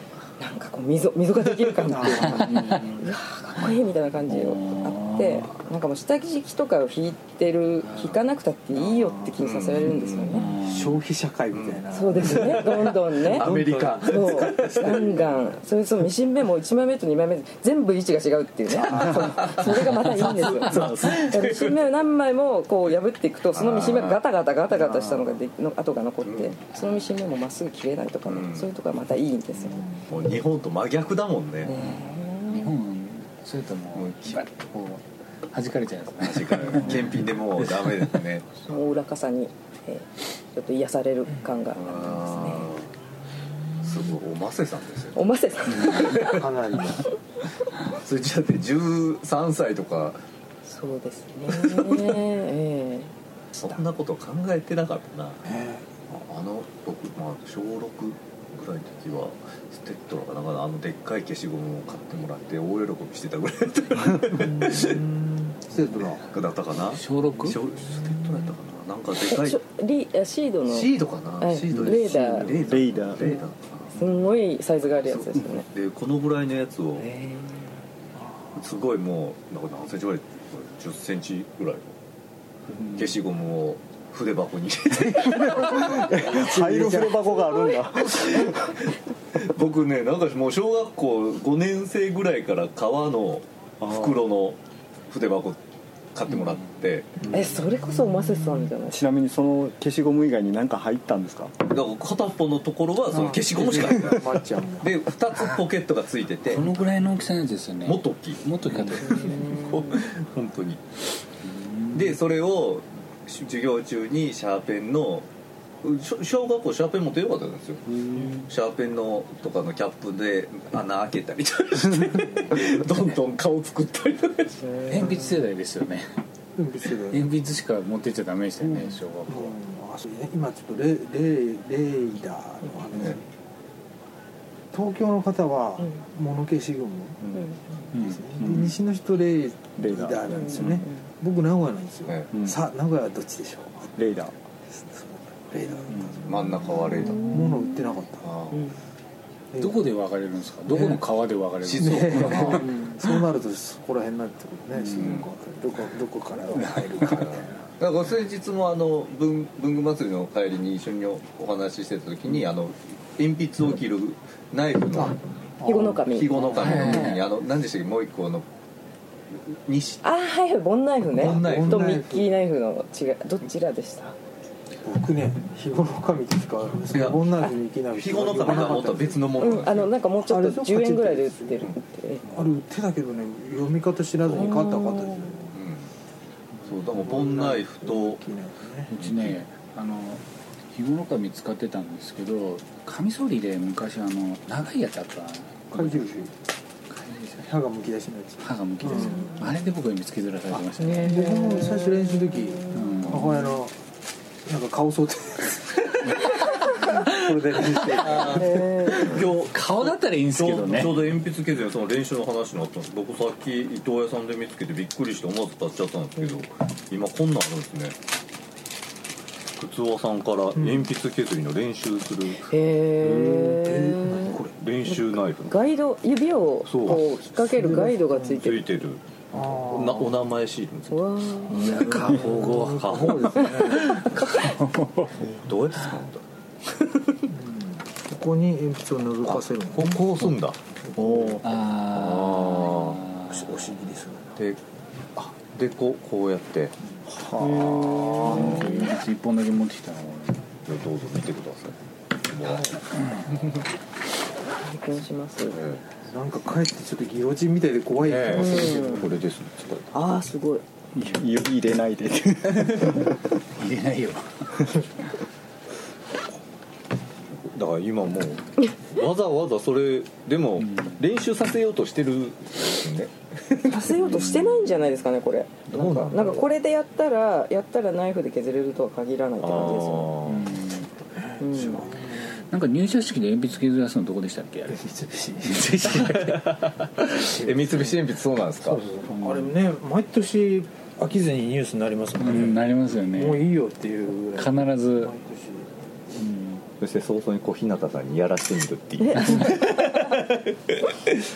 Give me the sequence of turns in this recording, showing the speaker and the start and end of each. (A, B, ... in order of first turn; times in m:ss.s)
0:00.4-0:10.5 A
0:01.9-0:02.6 B
0:02.3-0:02.9 C
0:02.3-0:02.9 D
0:04.3-0:05.5 C
0:07.8-0:08.2 D
0:08.7-0:09.4 B
0:09.4-0:10.5 D
0:10.3-0:11.0 C
0:10.6-0:15.3 B
0:11.5-0:15.2 D
0:11.9-0:13.5 A
0:14.0-0:29.9 A
0:18.8-0:21.8 D
0:23.5-0:24.2 D
0:24.7-0:25.4 B
0:26.2-0:26.6 D
0:28.2-0:28.7 D
0:29.7-0:30.1 B
0:30.1-0:31.7 D
0:31.6-0:32.7 A
0:31.7-0:37.9 C
0:33.9-0:34.5 D
0:36.2-0:38.5 D
0:38.6-0:42.7 A
0:41.8-0:42.9 D
0:43.8-0:46.4 D
0:45.1-0:46.4 A
0:46.2-0:47.0 B
0:47.8-0:50.2 D
0:50.6-0:53.8 A
0:51.5-0:52.1 D
0:53.6-0:55.4 D
0:55.4-0:56.1 B
0:56.1-1:05.0 D
1:04.4-1:06.3 B
1:06.2-1:09.6 D
1:06.9-1:07.6 C
1:09.3-1:12.5 A
1:10.6-1:14.0 D
1:12.1-1:13.3 E
1:13.9-1:15.7 A
1:14.9-1:17.0 D
1:17.0-1:17.8 A
1:18.6-1:22.0 D
1:22.9-1:26.3 D
1:25.1-1:28.8 E
1:26.2-1:27.4 B
1:27.6-1:35.6 D
1:36.1-1:37.1 D
1:37.3-1:39.0 A
1:38.9-1:41.5 E
1:41.6-1:46.7 D
1:43.1-1:44.9 B
1:45.3-1:45.7 C
1:46.5-1:49.5 C
1:47.8-1:50.8 D
1:49.0-1:50.0 A
1:51.4-1:52.2 C
1:51.9-1:55.3 D
1:55.8-1:57.8 D
1:58.0-1:58.5 C
1:58.4-2:04.7 D
2:04.7-2:05.4 A
2:04.9-2:06.1 C
2:06.6-2:07.3 B
2:07.1-2:09.5 C
2:08.6-2:13.2 B
2:14.7-2:23.9 B
2:17.9-2:18.7 C
2:19.8-2:20.8 E
2:20.3-2:21.0 A
2:22.1-2:22.3 D
2:24.0-2:24.3 E
2:24.7-2:28.3 B
2:26.2-2:27.4 D
2:26.9-2:27.5 A
2:28.2-2:28.7 D
2:29.5-2:29.9 B
2:29.6-2:32.8 C
2:30.7-2:31.0 B
2:31.6-2:32.7 D
2:31.7-2:37.7 B
2:35.0-2:35.2 D
2:37.0-2:45.2 D
2:45.0-2:46.8 B
2:45.6-2:47.2 A
2:46.0-2:48.4 D
2:46.6-2:47.2 C
2:49.3-2:50.0 D
2:50.0-2:54.2 A
2:51.1-2:52.3 B
2:51.1-2:52.0 D
2:54.8-2:59.3 B
2:56.9-2:57.2 D
2:57.9-2:59.9 D
2:59.4-3:02.2 A
3:00.2-3:01.7 B
3:02.3-3:05.6 B
3:04.2-3:04.5 D
3:04.4-3:05.3 A
3:05.5-3:05.9 D
3:06.6-3:08.2 D
3:06.9-3:08.9 B
3:08.9-3:16.3 C
3:08.9-3:09.4 D
3:15.7-3:16.3 B
3:16.9-3:17.5 C
3:17.4-3:19.3 B
3:18.4-3:21.2 C
3:20.6-3:23.8 B
3:20.8-3:23.1 A
3:22.7-3:23.4 C
3:24.4-3:28.5 B
3:26.7-3:31.0 C
3:28.0-3:38.0 D
3:28.3-3:29.2 A
3:39.6-3:42.5 D
3:42.5-3:48.6 A
3:43.0-3:44.5 B
3:44.6-3:45.6 D
3:46.6-3:47.1 D
3:47.6-3:48.4 B
3:48.3-3:49.0 D
3:49.3-3:50.2 B
3:49.7-3:53.6 D
3:50.9-3:52.1 A
3:51.6-3:52.5 C
3:51.6-3:54.0 B
3:53.5-3:54.4 A
3:53.7-3:55.1 C
3:55.2-3:56.2 D
3:57.3-4:00.2 B
3:59.2-4:00.6 D
4:01.0-4:01.4 B
4:01.0-4:01.4 E
4:01.4-4:03.5 C
4:01.8-4:03.1 D
4:03.2-4:04.4 B
4:05.2-4:06.7 D
4:07.1-4:08.9 E
4:07.4-4:10.4 C
4:07.7-4:08.8 D
4:10.6-4:11.8 D
4:12.3-4:13.6 D
4:14.6-4:15.6 A
4:15.5-4:15.8 D
4:16.0-4:19.0 B
4:18.0-4:19.8 D
4:18.3-4:19.1 A
4:19.9-4:20.6 A
4:21.0-4:23.2 E
4:22.6-4:24.8 C
4:27.3-4:33.9 D
4:30.6-4:31.0 C
4:33.6-4:40.1 A
4:33.7-4:34.9 C
4:35.7-4:36.5 D
4:39.4-4:40.6 D
4:40.2-4:40.9 C
4:41.1-4:42.4 B
4:41.4-4:41.9 A
4:41.5-4:41.8 D
4:42.4-4:44.8 C
4:44.7-4:45.9 B
4:45.4-4:46.5 C
4:45.9-4:48.8 D
4:47.2-4:48.0 B
4:48.6-4:52.6 B
4:49.1-4:49.5 C
4:52.2-4:53.4 C
4:53.1-4:55.7 B
4:54.3-4:55.1 C
4:56.2-4:56.6 C
4:56.8-5:01.2 D
4:59.0-4:59.5 A
4:59.2-4:59.5 C